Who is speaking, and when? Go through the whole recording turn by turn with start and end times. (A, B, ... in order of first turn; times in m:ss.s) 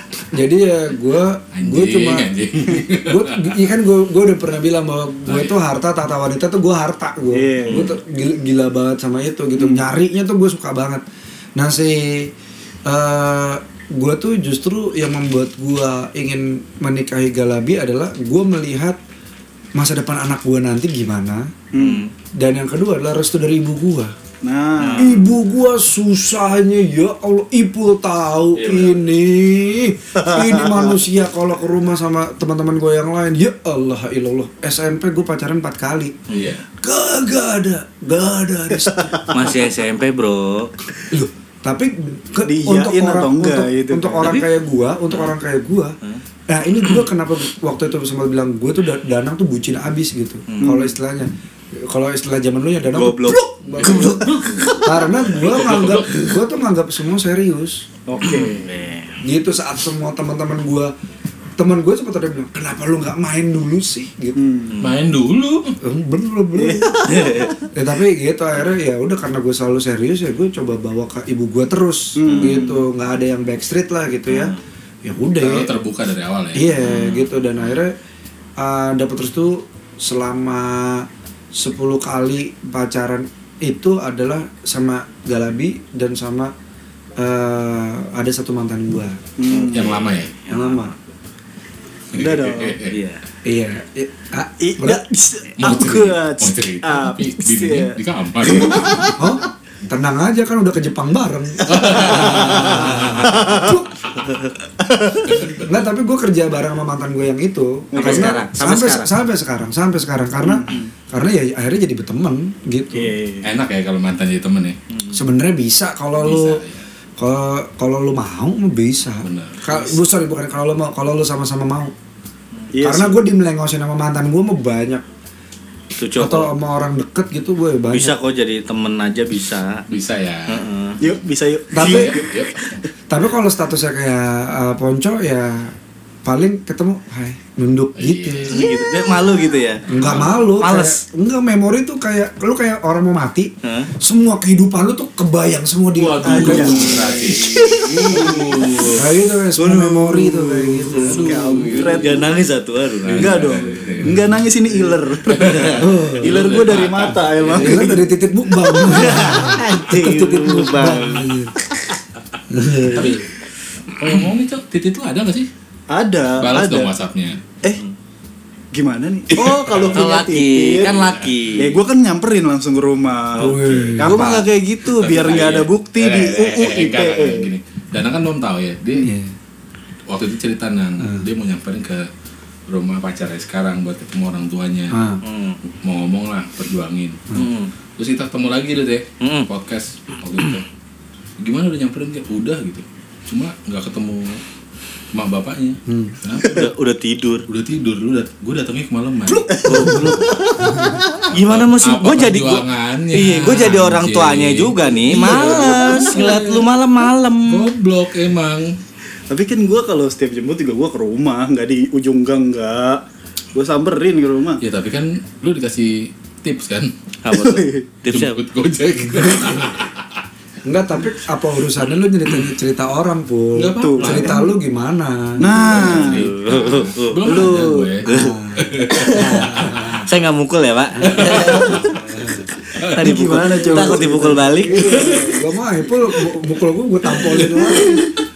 0:00.3-0:11.0 A
0:01.5-0:03.6 B
0:05.2-0:05.6 B
0:07.3-0:07.9 C
0:09.6-0:09.9 C
0:11.6-0:12.3 A
0:12.8-0:19.0 A
0:19.7-0:21.5 A
0:21.7-0:22.0 C
0:21.8-0:22.1 D
0:22.4-0:24.1 A
0:24.4-0:25.3 C
0:24.8-0:25.2 D
0:25.0-0:36.1 A
0:28.5-0:29.0 B
0:30.2-0:30.9 C
0:36.3-0:36.6 B
0:36.3-0:36.6 D
0:36.8-0:39.5 A
0:39.3-0:40.7 D
0:41.1-0:45.9 A
0:42.4-0:44.4 C
0:46.5-0:54.3 A
0:50.5-0:50.8 D
0:50.6-0:50.9 C
0:52.9-0:55.0 D
0:53.7-0:54.3 B
0:54.0-0:54.7 C
0:54.8-0:57.8 A
0:55.4-0:56.2 B
0:58.1-0:58.7 C
0:58.2-0:59.2 D
0:59.2-1:00.9 A
1:01.6-1:04.4 A
1:04.3-1:04.7 C
1:04.7-1:05.0 D
1:04.8-1:05.8 B
1:05.8-1:07.0 A
1:06.5-1:07.6 C
1:07.0-1:07.5 D
1:07.7-1:15.7 A
1:12.2-1:12.8 C
1:12.3-1:12.7 D
1:14.3-1:14.6 D
1:15.4-1:17.0 B
1:16.5-1:17.9 A
1:16.8-1:17.3 D
1:18.6-1:26.5 A
1:27.2-1:29.2 A
1:29.4-1:30.1 C
1:29.5-1:30.9 D
1:29.7-1:30.3 B
1:30.5-1:30.9 A
1:32.1-1:32.9 B
1:32.1-1:32.8 C
1:32.9-1:33.2 D
1:33.4-1:35.0 A
1:34.6-1:39.2 C
1:35.6-1:39.1 B
1:39.2-1:43.9 A
1:41.6-1:43.5 B
1:42.0-1:43.8 C
1:44.8-1:45.5 C
1:45.5-1:53.1 A
1:47.9-1:48.4 C
1:48.0-1:49.1 D
1:50.4-1:50.9 C
1:52.9-1:53.5 C
1:53.4-1:54.8 B
1:55.1-1:56.6 A
1:56.2-1:56.8 B
1:57.2-2:01.9 A
1:59.2-1:59.6 B
2:02.7-2:03.2 C
2:02.8-2:05.0 A
2:06.0-2:06.5 D
2:06.2-2:08.1 A
2:07.9-2:09.8 D
2:09.9-2:10.6 B
2:10.5-2:11.0 D
2:11.0-2:12.4 C
2:11.7-2:12.2 A
2:11.8-2:12.5 B
2:13.1-2:18.6 A
2:18.0-2:18.9 B
2:18.5-2:19.8 D
2:19.9-2:20.5 B
2:19.9-2:27.2 A
2:20.6-2:21.0 D
2:23.6-2:23.9 D
2:25.9-2:29.0 B
2:26.2-2:28.4 C
2:26.8-2:28.9 D
2:28.9-2:31.3 A
2:29.6-2:32.3 C
2:31.0-2:32.1 B
2:31.2-2:33.5 D
2:33.0-2:34.2 B
2:33.2-2:38.2 C
2:35.3-2:37.8 B
2:35.4-2:35.7 D
2:35.8-2:36.4 A
2:37.6-2:41.5 A
2:38.8-2:41.8 D
2:39.0-2:39.4 C
2:42.5-2:43.1 A
2:42.9-2:43.2 B
2:44.0-2:45.5 B
2:45.9-2:46.9 C
2:46.4-2:47.4 B
2:48.7-2:51.0 C
2:49.3-2:50.0 B
2:49.9-2:51.8 D
2:50.8-2:51.3 B
2:51.6-2:57.5 C
2:53.4-2:54.5 A
2:53.7-2:54.2 B
2:54.9-2:59.2 B
2:59.0-2:59.3 A
3:00.1-3:02.1 B
3:01.0-3:01.2 A
3:02.7-3:05.0 B
3:04.9-3:05.2 A
3:05.2-3:05.6 D
3:05.8-3:07.2 B
3:07.3-3:07.7 D
3:08.0-3:10.6 B
3:09.2-3:09.5 D
3:11.4-3:14.4 B
3:15.1-3:16.7 B
3:15.9-3:16.2 A
3:16.4-3:17.4 D
3:17.5-3:20.0 B
3:19.5-3:27.7 D
3:19.6-3:20.2 C
3:19.7-3:20.1 A
3:20.6-3:21.0 A
3:21.3-3:26.7 B
3:25.1-3:26.3 C
3:27.5-3:28.8 B
3:29.3-3:34.6 C
3:34.6-3:36.9 B
3:37.2-3:38.4 D
3:37.3-3:37.8 C
3:38.1-3:40.0 B
3:39.1-3:39.7 A
3:40.6-3:45.9 A
3:43.5-3:44.5 B
3:43.8-3:44.5 C
3:45.4-3:46.3 C
3:45.5-3:50.0 B
3:45.9-3:48.4 D
3:47.2-3:48.0 C
3:48.0-3:50.0 A
3:48.9-3:52.0 D
3:51.0-3:52.5 A
3:51.1-3:51.9 B
3:52.7-3:55.3 D
3:52.8-3:53.2 B
3:52.9-3:54.6 C
3:53.8-3:58.1 A
3:57.2-3:58.0 B